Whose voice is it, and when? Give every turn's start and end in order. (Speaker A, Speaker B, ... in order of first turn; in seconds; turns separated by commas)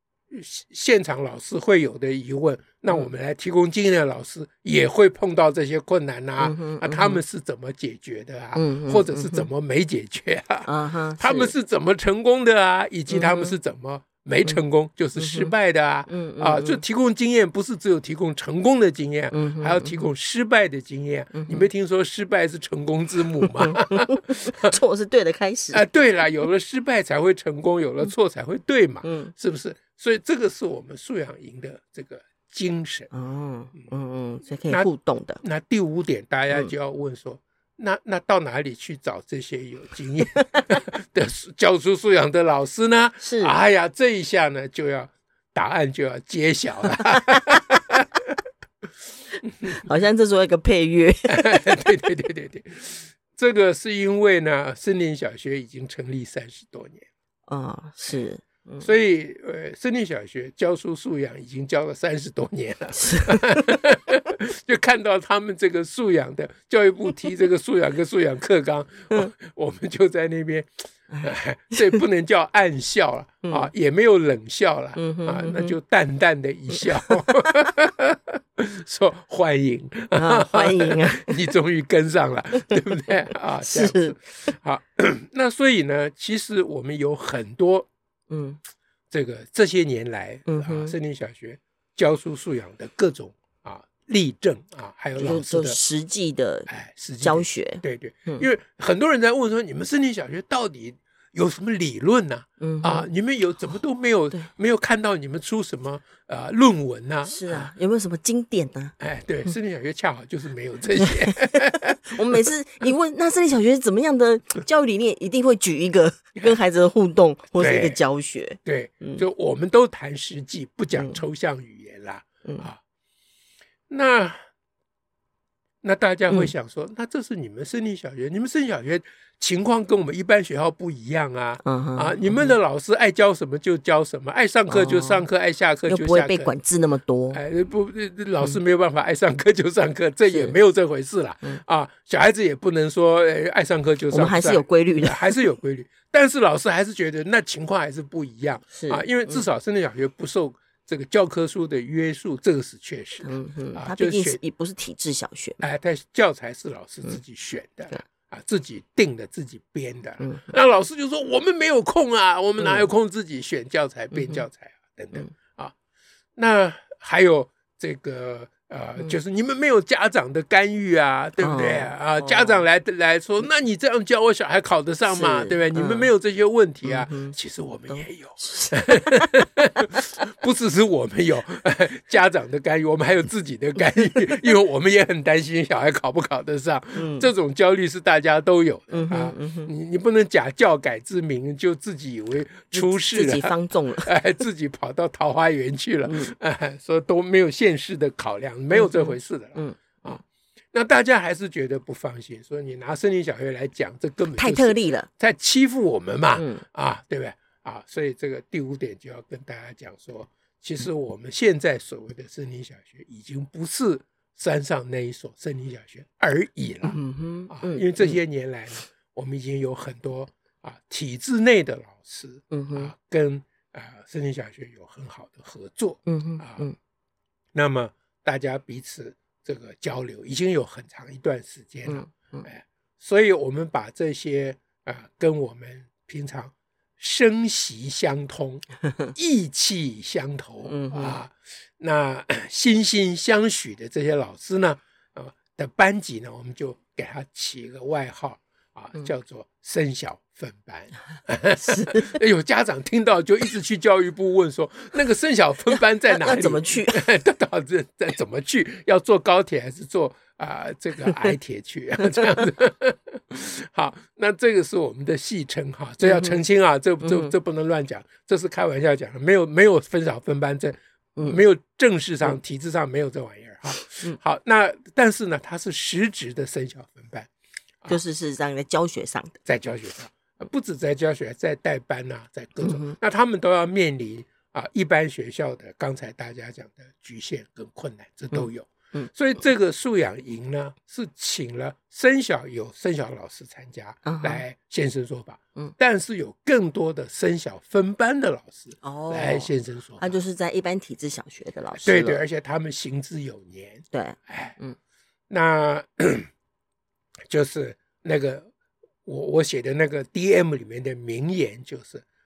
Speaker A: 0.3-24.7, Speaker B: 6.4-7.2, Speaker B: 8.6-9.5, Speaker B: 10.7-11.5, Speaker B: 13.1-13.6, Speaker B: 15.2-15.5, Speaker B: 16.1-16.8, Speaker B: 19.3-20.0, Speaker B: 21.3-21.7, Speaker B: 23.6-25.8, Speaker A: 25.7-33.1, Speaker B: 29.0-29.3, Speaker B: 33.1-35.4, Speaker A: 35.4-48.3, Speaker B: 43.2-43.6, Speaker B: 47.1-47.4, Speaker A: 49.4-49.8, Speaker B: 49.8-51.8, Speaker A: 51.3-57.1, Speaker B: 57.5-58.9, Speaker A: 58.8-87.9, Speaker B: 63.0-63.5, Speaker B: 71.1-72.0, Speaker B: 73.4-73.7, Speaker B: 75.0-75.8, Speaker B: 76.7-77.1, Speaker B: 80.2-81.4, Speaker B: 83.6-84.5, Speaker B: 88.3-88.6, Speaker A: 89.1-95.8, Speaker B: 90.5-90.9, Speaker B: 95.2-96.7, Speaker A: 96.7-107.7, Speaker B: 97.2-98.5, Speaker B: 102.6-103.1, Speaker B: 107.2-108.9, Speaker A: 109.0-112.5, Speaker B: 111.0-119.2, Speaker A: 117.6-118.0, Speaker A: 118.7-122.8, Speaker B: 121.0-121.2, Speaker A: 123.9-124.4, Speaker A: 125.8-136.5, Speaker B: 131.6-132.6, Speaker B: 134.7-135.2, Speaker B: 135.9-137.4, Speaker A: 137.3-154.4, Speaker B: 140.3-140.6, Speaker B: 144.1-145.4, Speaker B: 148.7-149.4, Speaker B: 153.2-155.6, Speaker A: 155.6-165.7, Speaker B: 160.2-160.5, Speaker B: 162.6-162.9, Speaker B: 164.1-164.4, Speaker A: 166.4-200.2, Speaker B: 171.4-172.6, Speaker B: 175.1-176.1, Speaker B: 176.8-177.3, Speaker B: 177.9-179.3, Speaker B: 186.9-187.3, Speaker B: 188.9-189.7, Speaker B: 192.7-194.2, Speaker B: 196.1-196.3, Speaker B: 198.7-200.2, Speaker A: 200.7-217.0, Speaker B: 204.4-205.1, Speaker B: 206.4-206.6, Speaker B: 216.8-218.2, Speaker A: 217.5-226.7, Speaker B: 222.5-222.9, Speaker B: 226.1-226.8, Speaker A: 227.5-277.3, Speaker B: 231.9-232.5, Speaker B: 240.7-241.2, Speaker B: 251.6-252.2, Speaker B: 255.7-257.1, Speaker B: 261.1-261.3, Speaker B: 266.0-266.4, Speaker B: 267.0-267.3, Speaker B: 277.9-279.4, Speaker A: 279.5-300.1, Speaker B: 282.6-283.0, Speaker B: 288.3-289.1, Speaker B: 294.1-294.4, Speaker B: 298.8-302.2, Speaker A: 301.8-304.6, Speaker B: 303.9-304.8, Speaker A: 305.3-306.3, Speaker A: 307.3-308.5, Speaker A: 309.1-312.0